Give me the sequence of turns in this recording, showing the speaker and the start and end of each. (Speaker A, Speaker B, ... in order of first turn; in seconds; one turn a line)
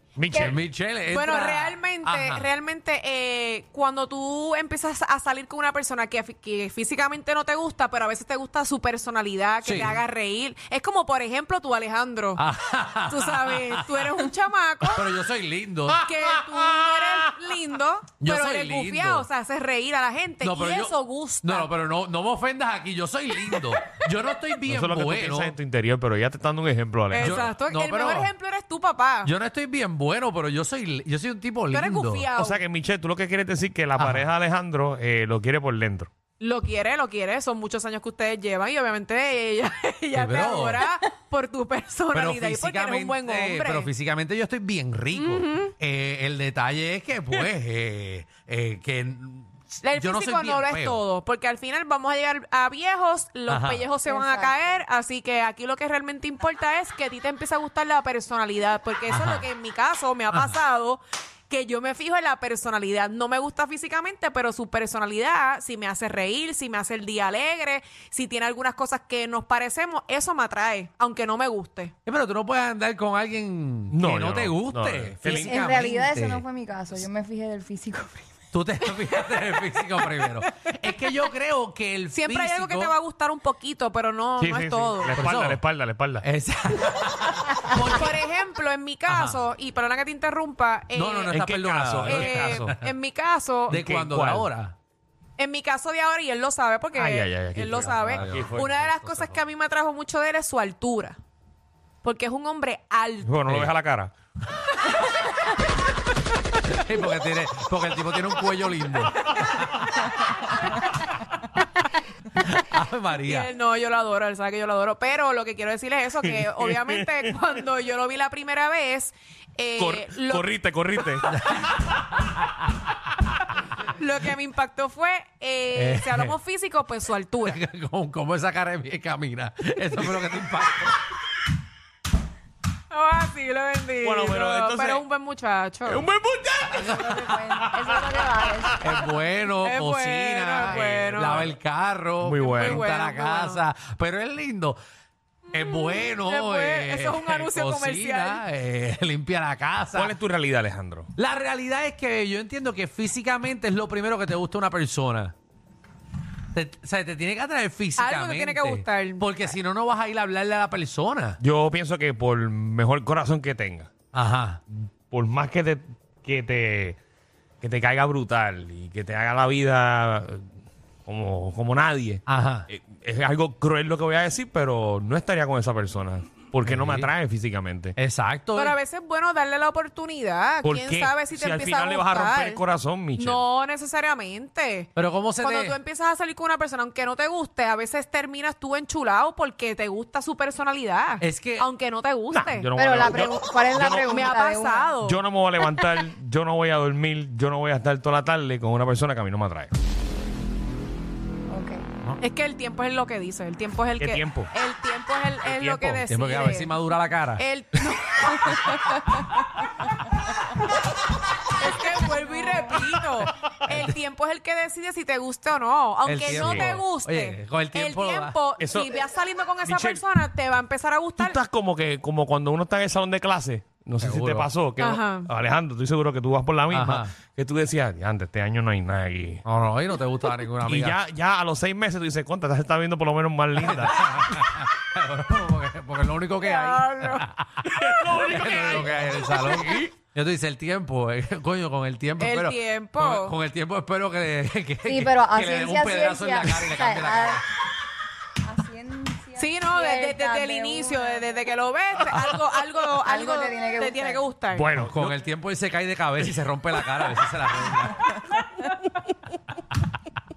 Speaker A: 0.2-0.6
Speaker B: 0.3-2.5
Speaker C: 1.1-12.4
Speaker B: 9.6-10.0
Speaker B: 12.4-13.8
Speaker C: 13.1-15.2
Speaker B: 14.9-16.1
Speaker C: 16.0-21.7
Speaker B: 18.2-19.3
Speaker B: 20.4-25.5
Speaker C: 23.6-24.0
Speaker A: 24.7-27.4
Speaker C: 27.1-29.3
Speaker B: 27.2-28.3
Speaker B: 29.2-32.3
Speaker C: 31.7-32.6
Speaker A: 32.3-36.1
Speaker B: 34.0-34.3
Speaker C: 36.4-43.9
Speaker B: 40.1-40.8
Speaker B: 42.1-51.0
Speaker C: 45.1-45.7
Speaker C: 49.8-71.9
Speaker B: 53.5-53.9
Speaker D: 54.0-54.8
Speaker B: 59.1-59.5
Speaker B: 60.3-60.6
Speaker B: 72.0-76.4
Speaker A: 73.9-75.6
Speaker D: 75.3-78.4
Speaker B: 78.5-82.9
Speaker C: 82.1-85.2
Speaker A: 84.4-86.2
Speaker B: 85.2-85.6
Speaker B: 86.2-88.1
Speaker C: 87.8-91.4
Speaker B: 89.1-89.4
Speaker B: 90.9-92.9
Speaker A: 91.3-92.8
Speaker C: 92.0-93.8
Speaker B: 93.7-94.7
Speaker A: 93.7-94.5
Speaker C: 95.4-101.2
Speaker A: 97.0-98.8
Speaker B: 97.7-99.2
Speaker C: 102.0-103.3
Speaker A: 103.2-104.1
Speaker B: 103.5-103.7
Speaker B: 106.5-109.8
Speaker B: 112.3-113.5
Speaker C: 113.1-121.0
Speaker A: 116.4-117.0
Speaker A: 119.8-121.3
Speaker B: 121.3-122.7
Speaker C: 123.9-127.6
Speaker B: 125.7-126.3
Speaker B: 127.4-131.0
Speaker C: 132.9-136.1
Speaker A: 134.0-135.0
Speaker A: 135.8-138.9
Speaker B: 136.7-137.3
Speaker D: 137.0-139.1
Speaker B: 138.8-144.8
Speaker C: 139.6-141.5
Speaker A: 142.2-142.8
Speaker C: 142.4-143.6
Speaker C: 145.5-148.4
Speaker B: 145.5-150.1
Speaker A: 149.9-151.1
Speaker B: 151.2-155.3
Speaker B: 156.5-161.4
Speaker C: 157.9-159.4
Speaker A: 161.4-163.9
Speaker B: 164.1-164.6
Speaker A: 164.7-167.0
Speaker A: 167.6-170.4
Speaker A: 171.1-177.9
Speaker B: 172.3-172.7
Speaker B: 176.6-177.1
Speaker B: 178.0-178.8
Speaker C: 178.5-182.6
Speaker A: 180.6-183.4
Speaker C: 183.1-192.7
Speaker B: 185.0-185.8
Speaker B: 191.2-191.7
Speaker A: 192.3-194.1
Speaker D: 192.7-194.9
Speaker C: 193.9-195.9
Speaker A: 195.0-199.7
Speaker D: 201.5-201.8
Speaker C: 202.2-206.8
Speaker A: 204.0-204.5
Speaker A: 205.4-206.0
Speaker B: 206.1-207.4
Speaker C: 207.3-209.7
Speaker C: 211.5-221.4
Speaker B: 213.7-213.9
Speaker B: 216.1-218.4
Speaker A: 216.3-216.7
Speaker A: 218.6-219.0
Speaker A: 219.6-220.0
Speaker A: 221.2-229.4
Speaker B: 224.0-224.5
Speaker C: 224.8-225.3
Speaker B: 226.7-227.1
Speaker B: 229.4-230.9
Speaker A: 230.7-234.1
Speaker B: 233.6-247.4
Speaker C: 236.4-237.3
Speaker A: 237.7-239.1
Speaker C: 239.4-239.8
Speaker C: 242.2-243.4
Speaker D: 244.8-247.4
Speaker D: 248.4-251.5
Speaker C: 249.3-254.7
Speaker D: 253.0-254.2
Speaker A: 254.5-255.2
Speaker B: 254.8-258.1
Speaker C: 258.1-258.7